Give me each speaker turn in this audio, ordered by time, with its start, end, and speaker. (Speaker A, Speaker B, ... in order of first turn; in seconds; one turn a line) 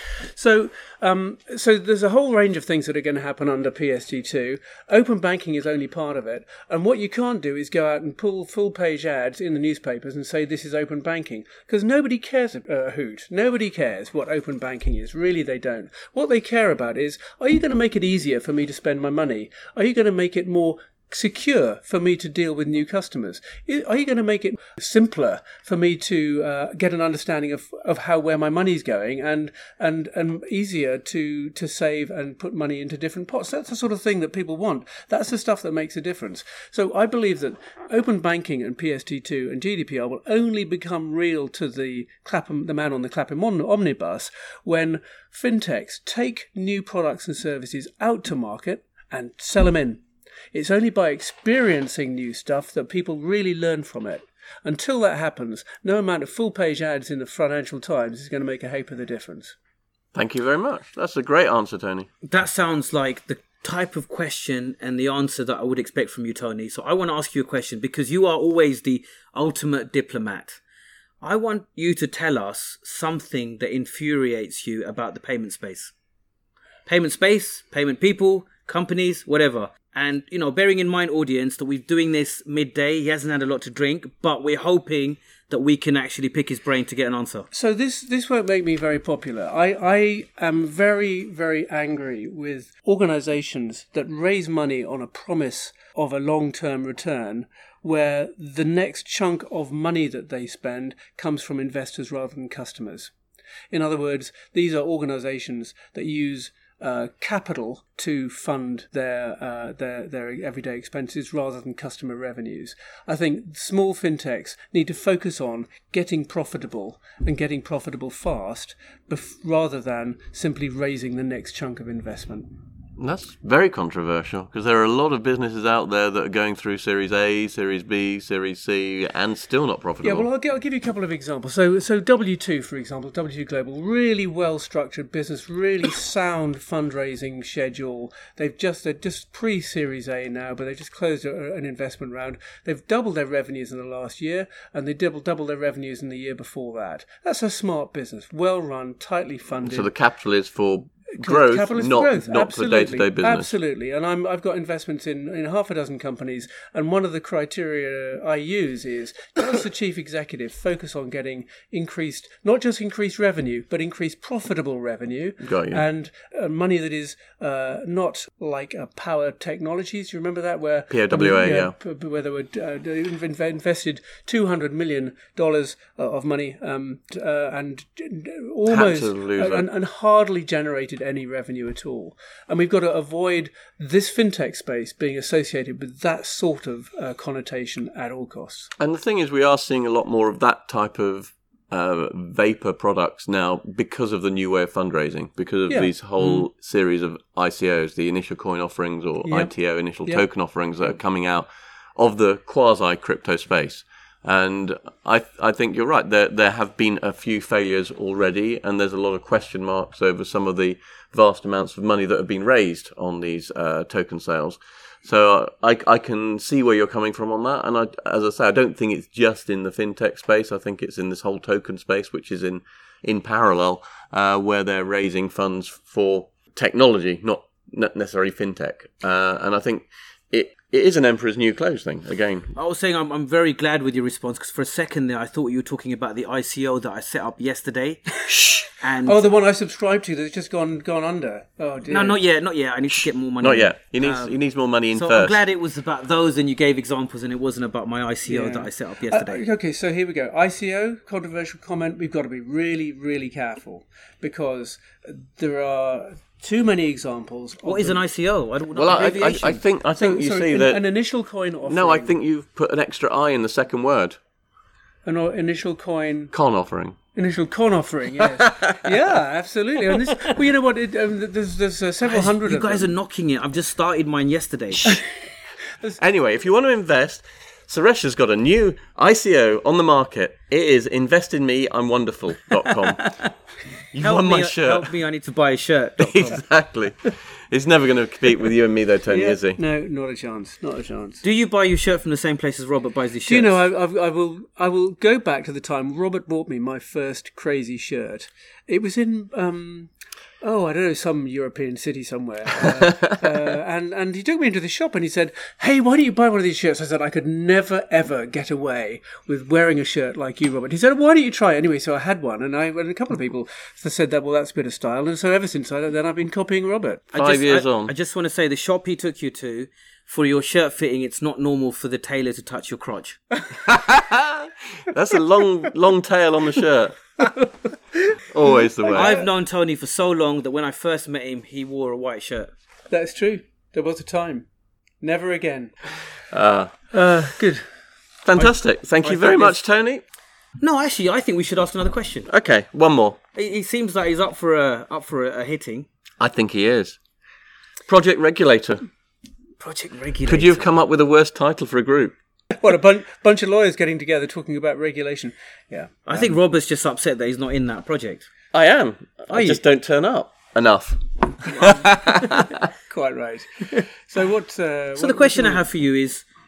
Speaker A: 0.3-50.0
Speaker A: 50.5-59.5
Speaker B: 60.1-62.1
Speaker C: 62.2-70.6
Speaker C: 71.2-75.9
Speaker C: 76.8-87.5
Speaker A: 87.5-103.1
Speaker A: 103.7-122.5
Speaker B: 123.0-130.3
Speaker A: 130.0-149.9
Speaker B: 149.6-153.5
Speaker A: 151.2-188.7
Speaker B: 165.4-165.8
Speaker B: 170.9-171.7
Speaker B: 178.7-179.7
Speaker B: 188.8-232.5
Speaker A: 195.7-196.5
Speaker A: 199.2-199.5
Speaker C: 232.5-238.2
Speaker C: 238.8-239.2
Speaker A: 239.0-242.2
Speaker C: 241.9-244.4
Speaker B: 243.4-245.4
Speaker C: 244.9-249.4
Speaker A: 248.2-258.0
Speaker C: 257.6-259.6
Speaker B: 258.7-260.9
Speaker A: 259.1-262.1
Speaker B: 261.6-264.2
Speaker A: 265.0-266.3
Speaker B: 266.3-267.0
Speaker A: 267.1-272.9
Speaker C: 272.0-275.0
Speaker A: 275.7-276.0
Speaker B: 276.0-283.0
Speaker B: 283.9-284.9
Speaker C: 284.0-286.4
Speaker B: 286.0-289.6
Speaker A: 289.1-291.2
Speaker C: 291.2-293.6
Speaker A: 293.2-299.9
Speaker A: 300.4-317.1
Speaker C: 317.1-323.2
Speaker B: 317.1-317.9
Speaker B: 323.7-327.0
Speaker A: 327.2-328.1
Speaker B: 328.3-329.2
Speaker A: 328.9-329.2
Speaker C: 328.9-332.5
Speaker A: 332.9-334.4
Speaker A: 335.0-335.8
Speaker B: 336.3-336.7
Speaker A: 336.9-337.6
Speaker B: 338.2-340.0
Speaker A: 338.4-339.5
Speaker C: 340.6-342.3
Speaker B: 342.3-343.2
Speaker C: 343.3-345.9
Speaker B: 346.2-347.0
Speaker B: 347.9-348.8
Speaker C: 349.6-350.7
Speaker B: 350.3-352.1
Speaker A: 352.6-356.4
Speaker C: 356.1-358.3
Speaker B: 358.5-362.6
Speaker C: 359.3-359.6
Speaker A: 362.9-365.7
Speaker C: 365.0-366.2